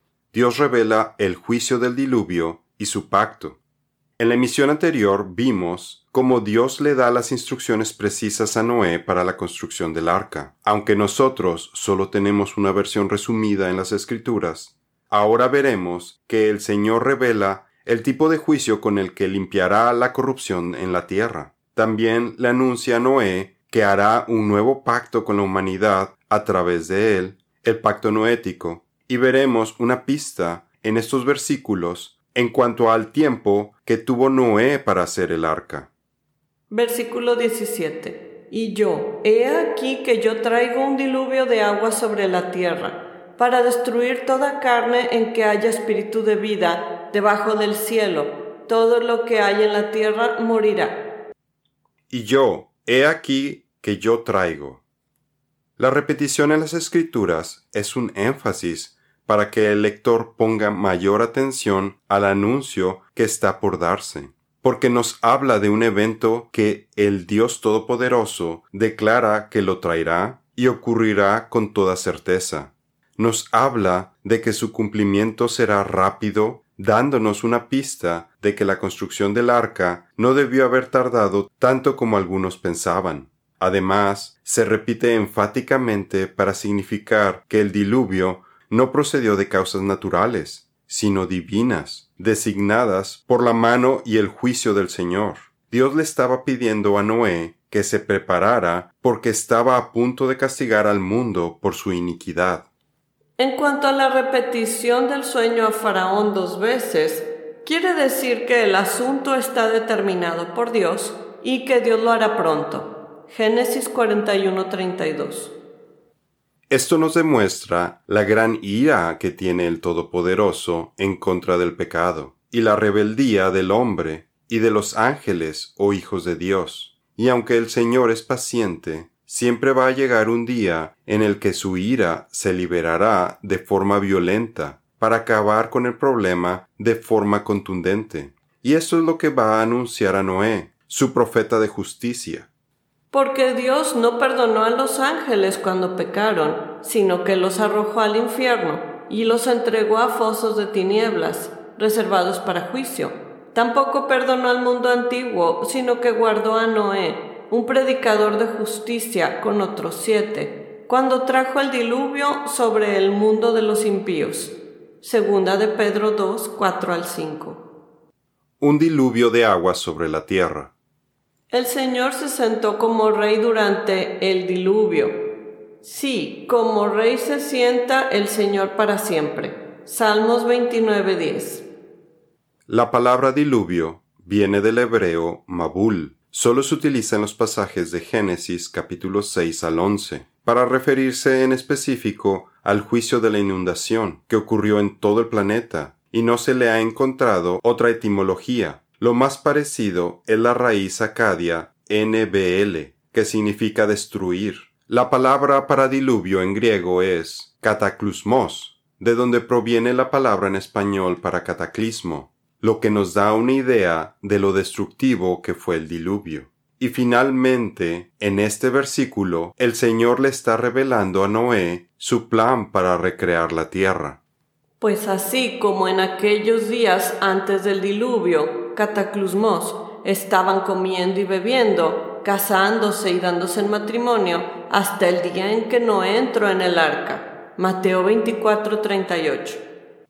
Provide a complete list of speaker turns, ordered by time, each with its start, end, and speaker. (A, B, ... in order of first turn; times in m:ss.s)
0:00.3-0:03.6 A
0:04.2-0:35.9 A
0:36.7-0:51.1 B
0:52.1-0:54.8 A
0:55.8-1:42.7 A
1:43.4-1:55.6 B
1:56.7-2:22.5 A
2:23.1-2:47.6 B
2:48.6-2:50.7 A
2:51.5-2:55.2 B
2:55.8-3:01.7 B
3:02.7-3:44.2 A
3:44.8-3:59.6 B